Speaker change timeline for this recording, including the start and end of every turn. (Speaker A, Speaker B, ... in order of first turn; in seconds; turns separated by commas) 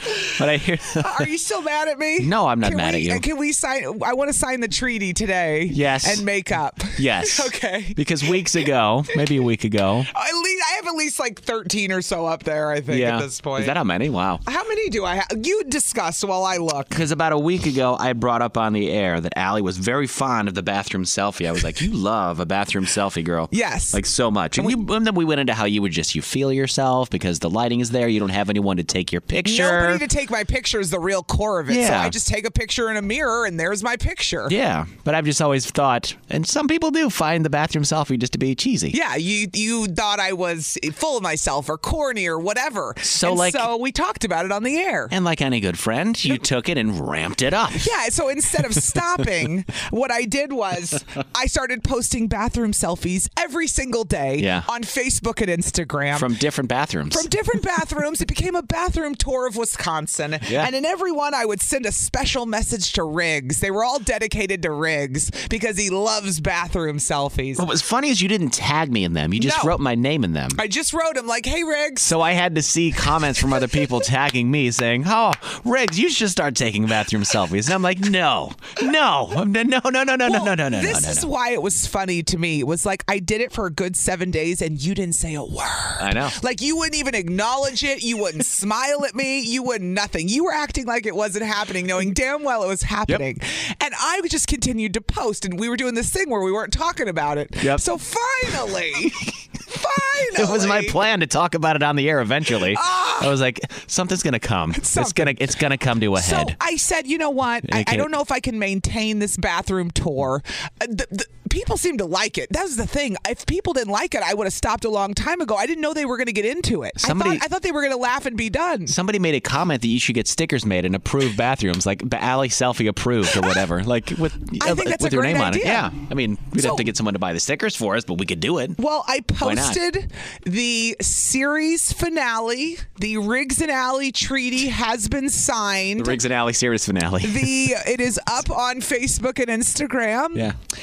Speaker A: 0.2-1.3, Speaker B: 1.0-8.4, Speaker A: 2.2-3.2, Speaker A: 5.7-6.2, Speaker A: 7.0-10.1, Speaker B: 10.1-13.7, Speaker A: 12.9-14.4, Speaker B: 14.4-17.0, Speaker A: 16.9-30.0, Speaker B: 23.5-24.0, Speaker B: 29.4-34.5, Speaker A: 31.7-32.1, Speaker A: 34.5-39.0, Speaker B: 38.9-45.1, Speaker A: 43.0-43.7, Speaker A: 45.1-47.9, Speaker B: 47.8-56.3, Speaker A: 54.4-54.6, Speaker A: 56.1-57.3, Speaker B: 57.1-67.6, Speaker A: 67.5-70.6, Speaker B: 69.4-69.7, Speaker B: 70.6-72.1, Speaker A: 72.0-81.3, Speaker B: 80.2-101.0, Speaker A: 86.0-86.4, Speaker A: 100.3-106.5, Speaker B: 102.7-103.3, Speaker B: 104.7-105.4, Speaker B: 106.2-118.9, Speaker A: 107.7-108.1, Speaker A: 117.0-117.4, Speaker A: 118.9-128.8, Speaker B: 124.6-125.9, Speaker B: 126.6-126.8, Speaker B: 128.8-136.2, Speaker A: 129.4-129.8, Speaker A: 136.0-137.7, Speaker B: 137.2-140.4